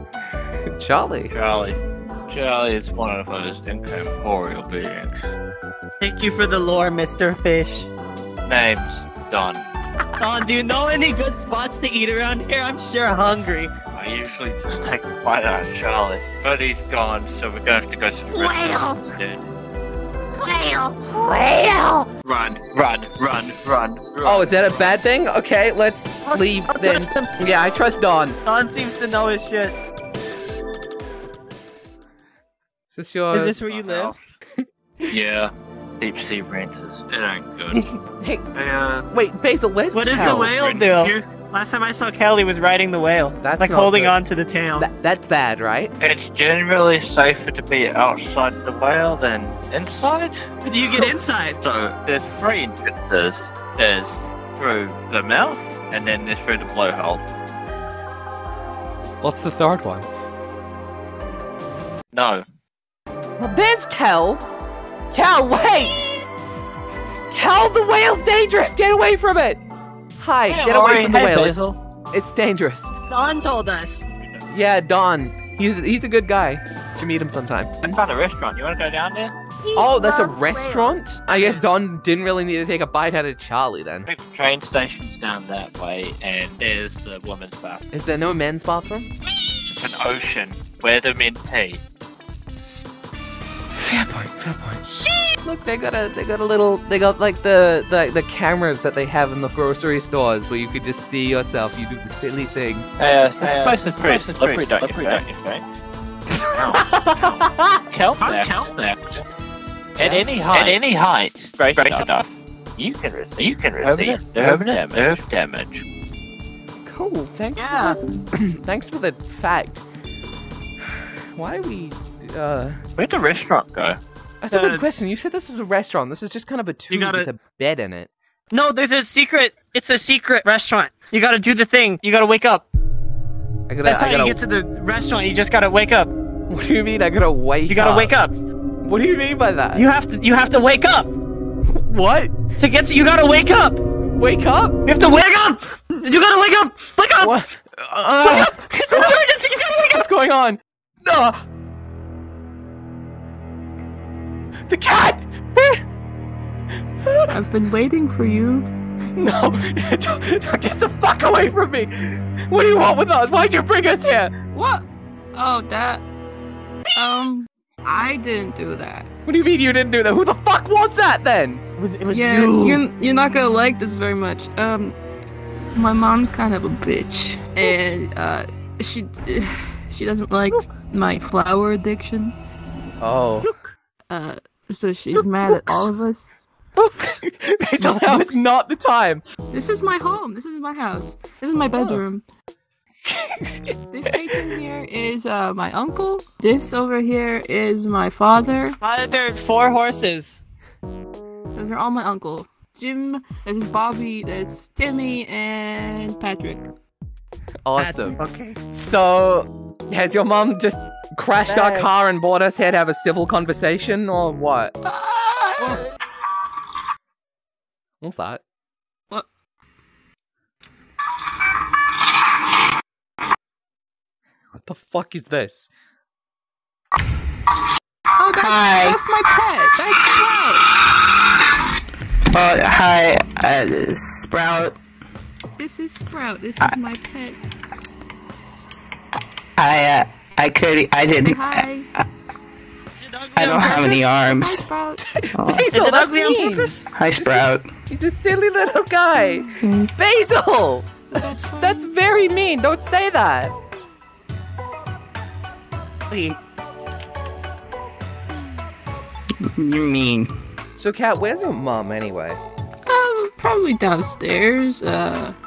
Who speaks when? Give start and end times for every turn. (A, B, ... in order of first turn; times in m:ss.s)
0:00.7-0:01.3 A
0:01.3-0:05.2 B
0:06.0-0:07.9 C
0:08.5-0:09.6 B
0:10.2-0:13.7 C
0:13.9-0:19.5 B
0:18.4-0:19.0 A
0:20.4-0:22.1 A
0:22.2-0:25.0 B
0:24.2-0:28.4 A
0:26.3-0:27.4 C
0:28.4-0:29.8 C
0:32.9-0:33.6 A
0:33.3-0:34.1 C
0:33.7-0:34.3 B
0:35.1-0:37.9 B
0:38.2-0:38.5 A
0:38.5-0:39.1 B
0:39.1-0:40.5 A
0:39.9-0:44.9 C
0:40.1-0:41.3 B
0:43.4-0:44.2 A
0:44.8-0:45.9 A
0:46.0-0:51.1 B
0:50.7-0:51.6 C
0:51.6-0:57.2 B
0:59.2-1:00.1 A
1:02.1-1:02.4 B
1:03.4-1:04.4 A
1:05.1-1:06.4 A
1:07.3-1:09.6 A
1:10.2-1:11.6 A
1:10.5-1:11.8 B
1:12.1-1:12.9 A
1:13.1-1:14.0 C
1:14.5-1:18.0 A
1:17.8-1:19.4 B
1:19.8-1:24.1 A
1:19.8-1:21.0 D
1:24.1-1:27.8 B
1:27.9-1:29.1 A
1:29.7-1:31.8 B
1:33.7-1:42.9 A
1:43.0-1:45.6 B
1:46.6-1:49.2 B
1:46.7-1:47.8 A
1:50.0-1:52.3 B
1:50.0-1:50.6 A
1:52.8-1:55.8 B
1:56.8-1:59.8 A
1:57.6-1:58.0 C
2:01.3-2:02.8 A
2:03.0-2:04.0 B
2:04.4-2:08.1 A
2:04.5-2:04.8 C
2:06.9-2:07.3 C
2:08.5-2:12.6 C
2:13.7-2:14.4 A
2:13.8-2:16.1 C
2:16.5-2:18.2 A
2:17.7-2:18.4 C
2:18.8-2:19.9 A
2:19.8-2:21.1 C
2:21.7-2:22.3 A
2:22.6-2:23.8 C
2:24.0-2:24.8 A
2:24.8-2:27.4 C
2:27.2-2:31.4 A
2:28.2-2:30.1 C
2:34.7-2:35.7 A
2:37.0-2:37.4 A
2:37.3-2:38.7 D
2:39.2-2:44.3 A
2:44.5-2:46.0 D
2:46.9-2:49.1 D
2:49.3-2:51.6 A
2:51.8-2:52.8 C
2:52.1-2:55.0 D
2:55.7-3:02.4 D
3:03.0-3:03.5 A
3:03.5-3:06.3 D
3:05.2-3:05.9 A
3:06.8-3:07.2 C
3:07.2-3:09.2 A
3:07.8-3:08.4 D
3:09.5-3:12.2 D
3:11.8-3:12.0 A
3:13.1-3:14.5 A
3:13.9-3:18.8 D
3:18.8-3:20.4 C
3:21.6-3:26.7 D
3:27.6-3:28.2 A
3:27.8-3:28.6 C
3:28.7-3:34.7 A
3:31.5-3:31.9 C
3:38.0-3:38.4 A
3:44.6-3:45.7 A
3:48.2-3:50.7 D
3:48.3-3:49.0 E
3:52.3-3:54.8 E
3:55.6-3:57.4 D
3:59.6-4:01.7 E
4:01.1-4:01.9 D
4:03.0-4:04.0 C
4:03.3-4:04.7 E
4:03.8-4:05.0 D
4:05.1-4:13.5 A
4:05.4-4:05.7 E
4:05.7-4:06.8 C
4:06.9-4:07.7 E
4:09.6-4:09.9 D
4:11.1-4:12.0 D
4:16.1-4:16.4 C
4:19.4-4:20.3 E
4:20.8-4:22.4 A
4:22.9-4:25.4 D